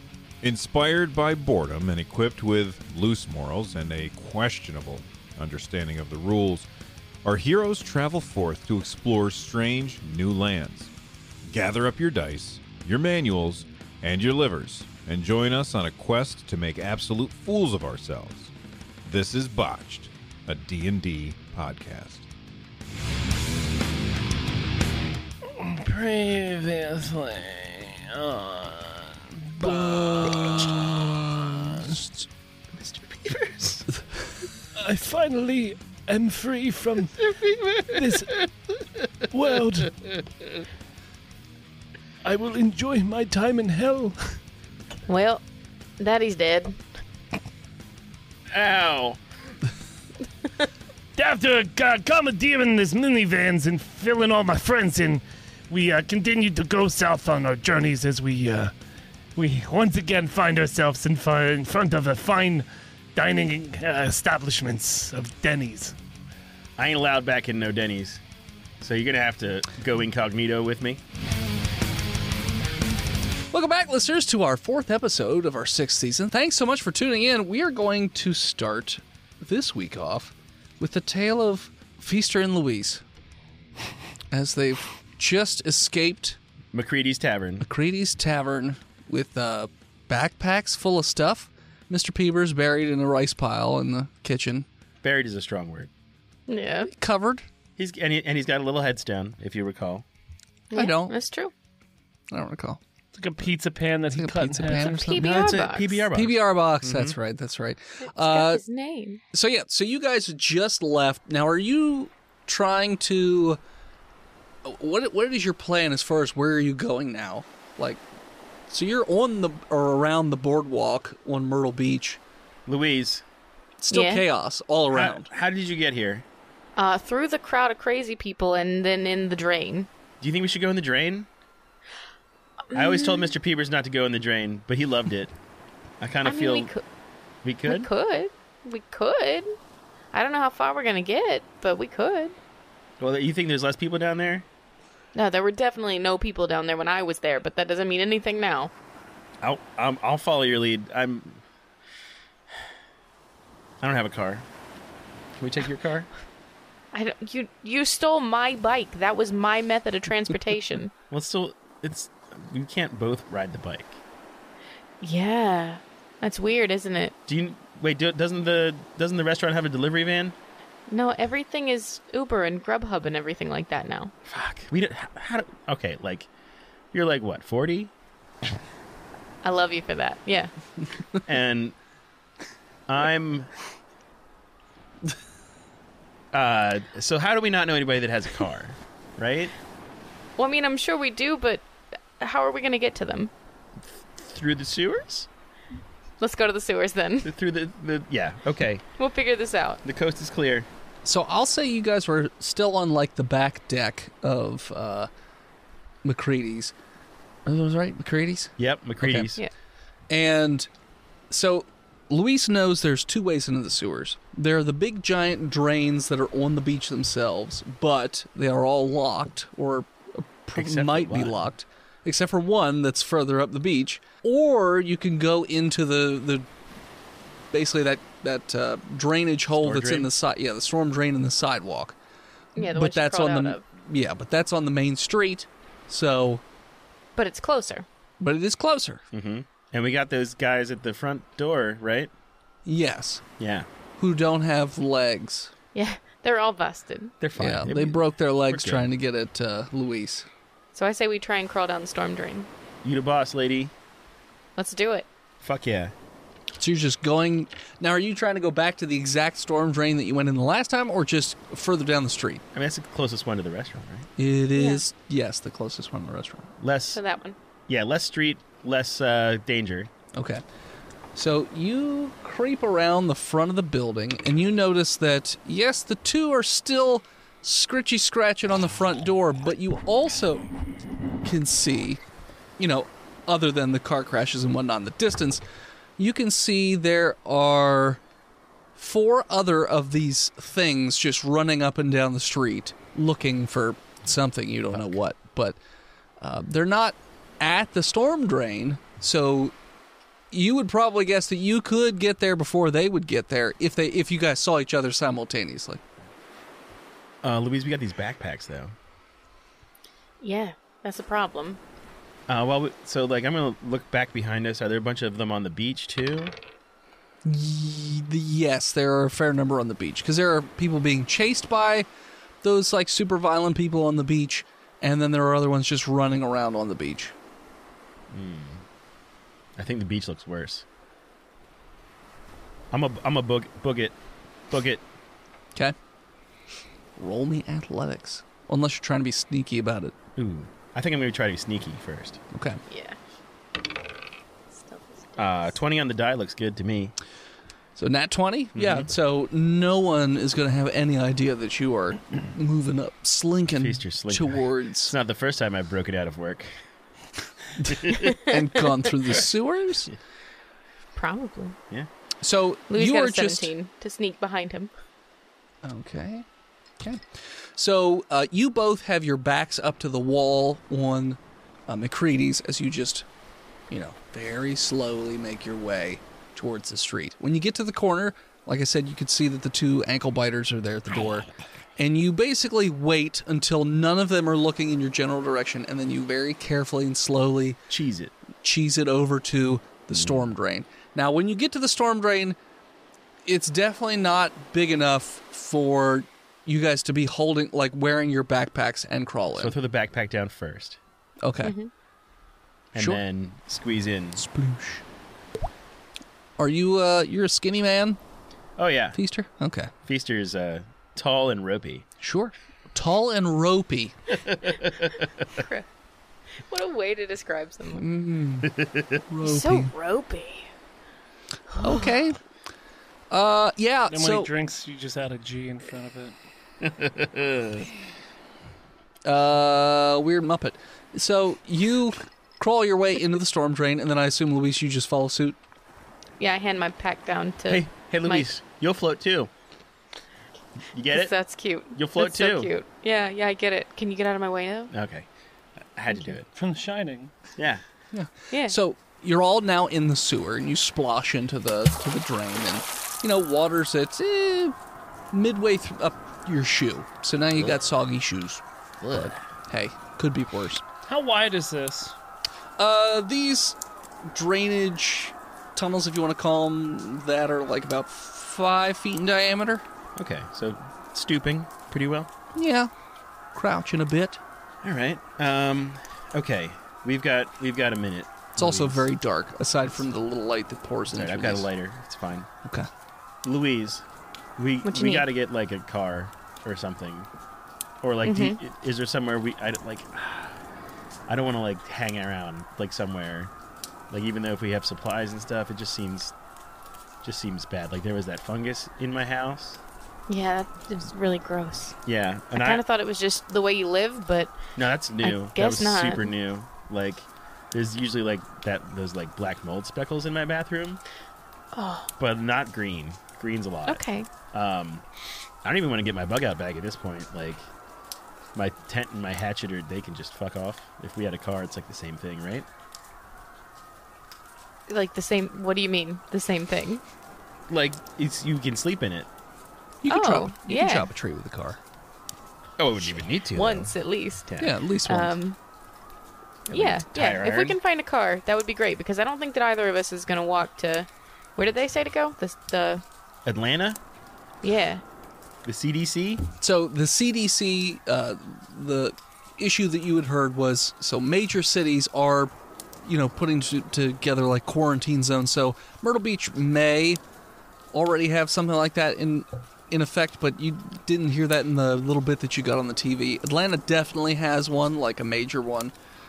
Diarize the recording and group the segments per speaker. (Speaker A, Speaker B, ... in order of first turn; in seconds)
Speaker A: 0.4-6.7, 7.2-10.9, 11.4-18.5, 19.1-22.3
Speaker B: 25.5-32.1, 34.8-37.3, 37.9-38.5, 39.3-40.0, 42.2-44.4, 51.2-58.7, 59.4-66.0, 103.1-105.2, 423.9-426.2, 446.4-447.1, 460.9-461.9
Speaker C: 32.7-33.9, 37.3-38.1, 48.5-49.2, 66.8-68.2, 68.8-71.0, 86.7-87.7, 95.0-95.9, 97.8-100.0, 105.2-107.2, 122.7-123.2, 124.9-126.2, 130.2-131.3, 132.7-135.3, 136.0-136.7, 137.4-137.9, 143.0-144.5, 149.4-151.4, 153.8-154.5, 155.4-156.1, 161.1-164.0, 167.3-170.4, 174.3-176.3, 176.9-177.9, 181.3-181.8, 182.9-183.5, 186.3-189.5, 193.8-195.3, 197.2-198.8, 199.8-200.7, 208.6-209.4, 220.6-221.4, 229.6-230.1, 239.1-242.1, 243.4-243.7, 247.2-248.9, 252.8-253.7, 255.4-255.9, 262.5-264.1, 266.6-267.0, 267.7-269.9, 307.2-308.8, 312.3-316.3, 328.1-328.6, 329.6-330.6, 332.7-334.0, 334.5-334.8, 340.2-342.2, 345.2-346.9, 348.6-348.9, 353.6-356.6, 357.7-358.1, 387.7-388.1, 389.9-390.3, 399.4-400.8, 402.7-404.2, 408.6-409.0, 409.9-411.9, 418.5-419.0, 426.6-427.7, 437.5-439.3, 440.7-441.1, 441.8-442.5, 444.7-445.1, 445.6-446.3, 447.4-447.6, 458.8-459.1, 470.0-472.1, 474.6-478.9, 480.9-482.3, 483.2-483.8, 484.4-487.1, 487.8-490.4, 491.1-493.3, 493.9-496.1, 497.0-499.6, 501.9-502.6, 504.6-510.8, 512.0-514.9, 515.4-517.5, 518.4-522.5, 527.5-529.1, 532.6-533.7, 536.5-537.6, 543.3-543.8, 545.5-546.3
Speaker D: 45.1-45.4, 46.0-46.8, 96.5-96.9, 100.7-101.5, 105.0-106.1, 108.2-109.2, 123.9-124.2, 126.8-129.9, 132.7-133.3, 136.2-136.8, 137.7-139.5, 140.1-142.4, 145.2-148.7, 156.9-160.9, 165.0-167.1, 170.9-174.1, 179.4-180.5, 190.4-191.7, 192.2-193.3, 196.2-197.3, 199.0-199.8, 232.6-233.6, 237.2-237.8, 245.7-247.2, 250.8-252.5, 254.6-255.1, 264.6-264.8, 266.9-267.4, 310.2-311.6, 342.7-343.0, 344.5-345.5, 361.0-361.6, 362.7-364.7, 401.4-401.7, 415.3-415.7, 416.5-417.9, 419.2-420.5, 421.5-421.9, 436.2-438.3, 440.9-444.7, 448.3-448.6, 484.6-485.1, 488.0-488.4, 500.1-501.8, 502.3-504.4, 505.0-506.1, 511.5-511.9, 513.7-514.1, 524.7-526.8, 529.9-530.9, 533.4-535.4, 536.5-542.8, 544.4-544.8
Speaker E: 73.5-83.0, 84.3-86.4, 87.7-94.7, 96.9-97.5, 100.7-101.1, 102.3-102.8, 104.1-105.3, 106.1-108.6, 109.3-113.6, 114.6-118.0, 118.7-122.2, 123.8-125.3, 201.1-205.1, 206.0-206.7, 207.5-209.3, 210.1-210.7, 211.3-226.5, 227.5-231.9, 232.6-236.4, 238.2-239.0, 242.7-243.2, 244.0-245.5, 247.4-250.3, 256.6-262.4, 264.2-266.5, 270.1-270.4, 271.1-280.5, 281.2-282.0, 282.6-285.4, 286.0-288.0, 288.8-295.6, 296.2-299.5, 300.3-305.8, 317.2-321.9, 322.4-327.1, 337.0-340.0, 342.3-342.6, 347.8-355.0, 357.6-359.9, 362.2-363.5, 365.6-366.3, 366.8-373.1, 373.7-387.6, 388.4-392.4, 393.3-399.6, 401.2-401.6, 402.8-403.0, 404.2-404.8, 406.4-408.0, 408.9-409.7, 412.0-414.0, 417.8-418.5, 419.1-419.7, 421.6-422.2, 423.1-424.3, 429.1-435.4, 447.9-454.6, 455.1-460.6, 462.6-469.6, 472.3-472.7, 473.3-474.2, 478.4-481.5, 529.8-531.6, 534.4-535.1, 546.4-552.3, 552.8-557.0, 557.7-565.7